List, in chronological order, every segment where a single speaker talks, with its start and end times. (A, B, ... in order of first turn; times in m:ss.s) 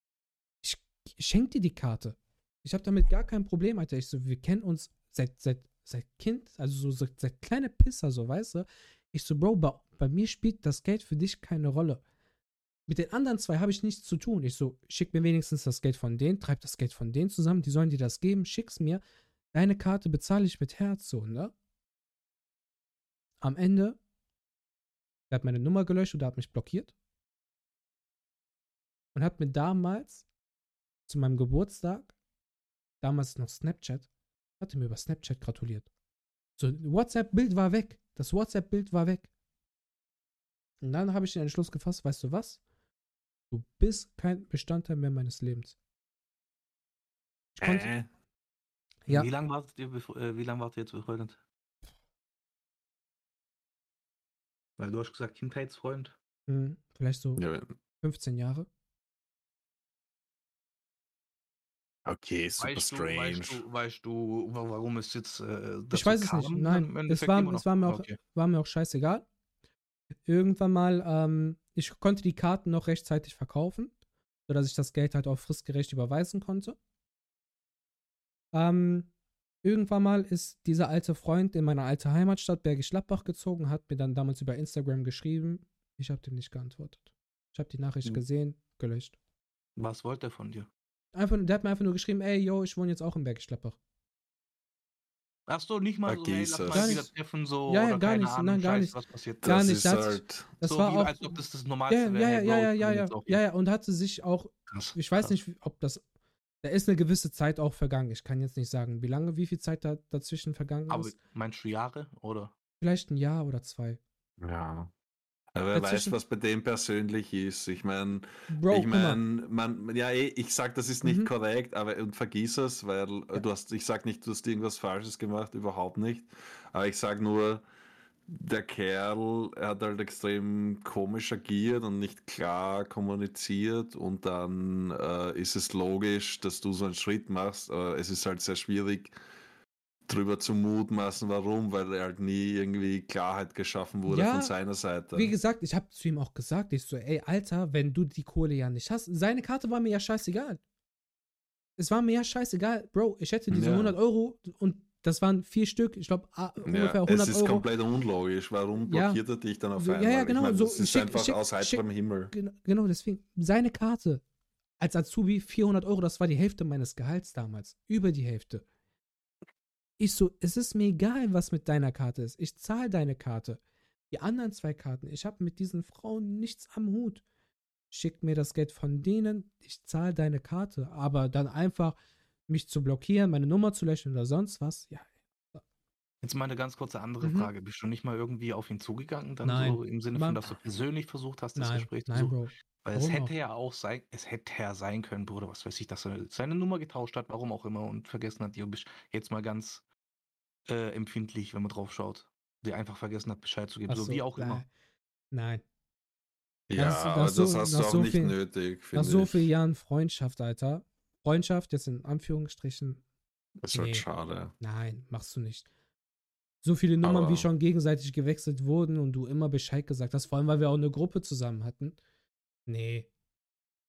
0:00.6-0:12.0 A
0:12.9-0:19.0 A
0:19.5-0:21.5 A
0:23.4-0:24.0 A
0:25.3-0:26.9 A
0:29.1-0:30.2 A
0:31.1-0:32.1 A
0:33.0-0:34.1 A
0:34.6-0:35.9 A
0:36.6-0:39.3 A
0:40.8-0:42.6 A
0:43.5-0:45.7 A
0:47.6-0:47.9 A
0:47.6-0:48.1 B
0:49.1-0:51.4 C
0:54.8-0:56.1 C
0:56.5-0:57.4 A
0:57.4-0:57.7 B
0:58.0-0:58.7 A
1:02.0-1:03.6 B
1:02.6-1:08.2 C
1:05.9-1:09.2 A
1:10.2-1:13.9 A
1:14.5-1:16.8 A
1:18.5-1:19.1 A
1:19.6-1:29.2 A
1:29.8-1:30.7 C
1:31.1-1:33.8 A
1:35.5-1:39.5 C
1:36.0-1:37.0 B
1:36.7-1:37.1 A
1:37.7-1:41.4 A
1:39.4-1:40.5 B
1:40.6-1:43.4 C
1:41.9-1:46.0 A
1:44.7-1:45.3 C
1:46.6-1:51.1 A
1:50.9-1:52.5 C
1:52.8-1:54.0 A
1:54.4-1:54.9 B
1:55.5-2:07.6 B
1:55.7-1:56.1 A
1:58.5-1:59.2 A
2:01.0-2:01.3 A
2:08.3-2:19.1 B
2:20.1-2:25.3 B
2:24.1-2:24.5 A
2:25.1-2:30.6 A
2:31.8-2:37.6 A
2:33.5-2:34.0 B
2:36.6-2:42.3 B
2:38.9-2:39.2 A
2:39.8-2:44.2 A
2:44.8-2:48.6 A
2:50.0-2:53.6 A
2:54.1-2:57.2 A
2:57.9-3:02.0 A
3:02.5-3:05.6 A
3:06.2-3:19.8 C
3:07.2-3:07.5 A
3:09.4-3:10.4 A
3:11.6-3:13.3 A
3:20.7-3:24.6 C
3:23.9-3:24.7 A
3:25.3-3:25.6 A
3:26.7-3:29.5 B
3:26.8-3:28.4 A
3:28.9-3:33.0 A
3:33.6-3:34.5 B
3:33.7-3:34.0 A
3:34.6-3:35.7 A
3:36.6-3:42.0 A
3:37.0-3:37.5 B
3:42.7-3:43.1 A